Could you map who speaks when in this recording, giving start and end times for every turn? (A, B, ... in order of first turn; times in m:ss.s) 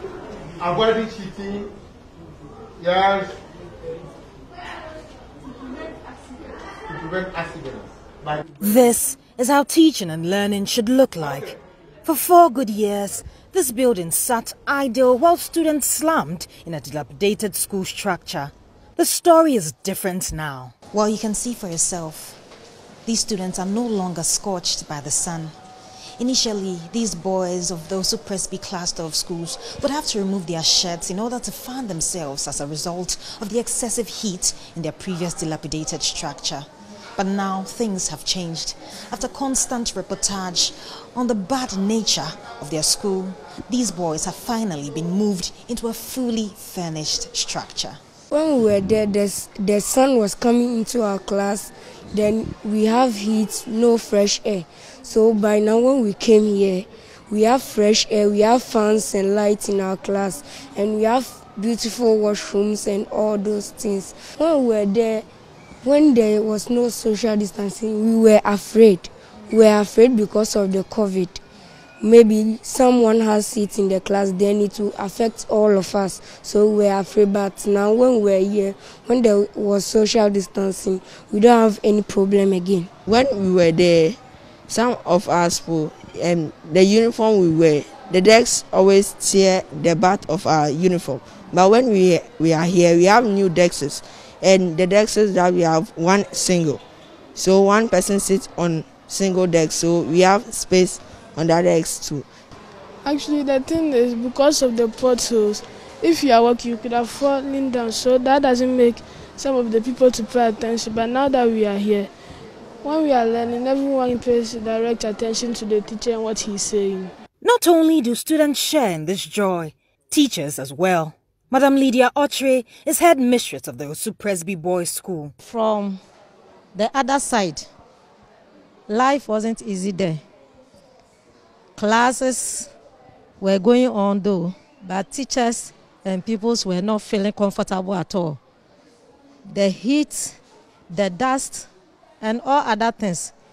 0:00.6-0:01.7 A
0:02.8-0:03.4 A
0:06.9-0:08.4 A
0:08.6-0:22.4 B
0:23.0-0:25.5 B
0:26.2-0:48.0 B
0:48.3-1:05.2 C
1:05.8-1:11.4 C
1:12.0-1:22.9 C
1:23.0-1:24.2 D
1:24.7-1:36.8 D
1:37.4-1:42.3 D
1:43.0-1:52.1 E
1:52.8-1:57.1 E
1:57.4-2:05.3 B
2:05.4-2:06.0 F
2:06.7-2:07.6 F
2:08.9-2:10.2 F
2:11.8-2:12.7 F
2:13.4-2:18.4 F
2:19.5-2:20.4 F
2:20.9-2:21.7 F
2:22.2-2:23.3 F